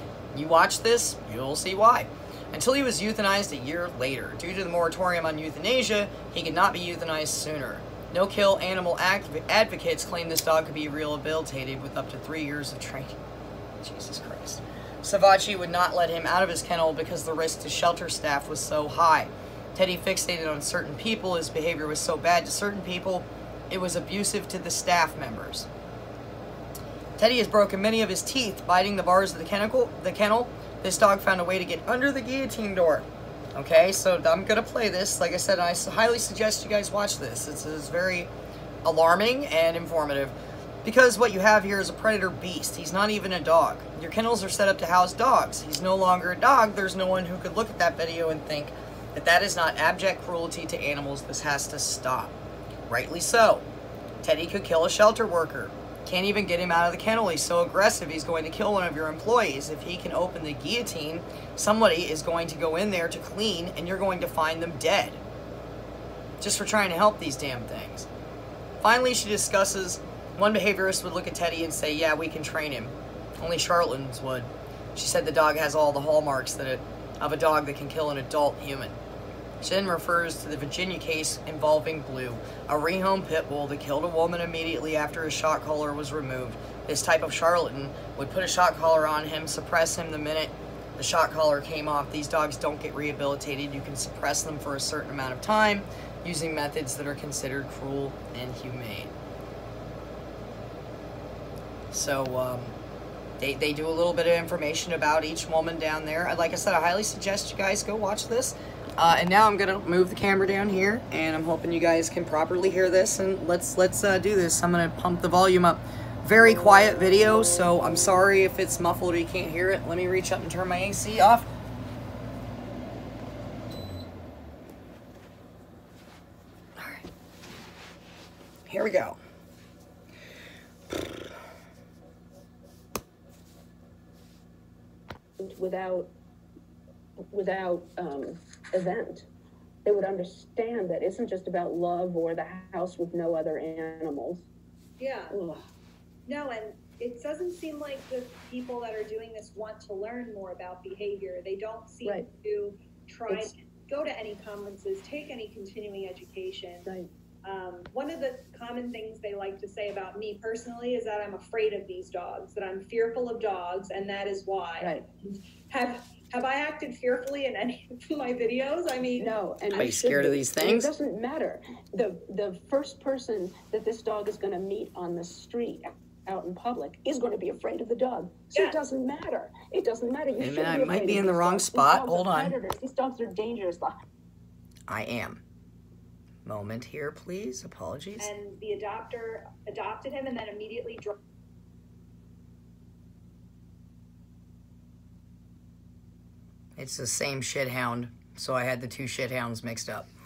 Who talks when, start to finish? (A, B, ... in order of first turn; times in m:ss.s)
0:00.3-0:13.2 A
0:13.8-0:25.7 A
0:27.2-0:38.3 A
0:38.8-0:52.4 A
0:52.9-0:53.7 A
0:54.2-1:05.2 A
1:06.4-1:08.1 A
1:08.8-1:19.0 A
1:19.6-1:39.1 A
1:41.9-1:42.8 A
1:43.4-2:01.5 A
2:06.8-2:07.1 A
2:08.7-2:09.2 A
2:15.4-2:16.1 B
2:17.3-2:19.3 B
2:19.8-2:24.5 B
2:25.0-2:25.4 C
2:25.3-2:25.6 B
2:26.3-2:36.9 C
2:37.4-2:49.3 C
2:44.8-2:45.1 B
2:49.2-3:04.0 B
2:49.8-2:50.9 A
2:58.5-2:58.8 C
3:00.4-3:02.6 A
3:04.9-3:05.4 A
3:06.4-3:08.3 A
3:08.2-3:11.2 C
3:16.8-3:20.1 A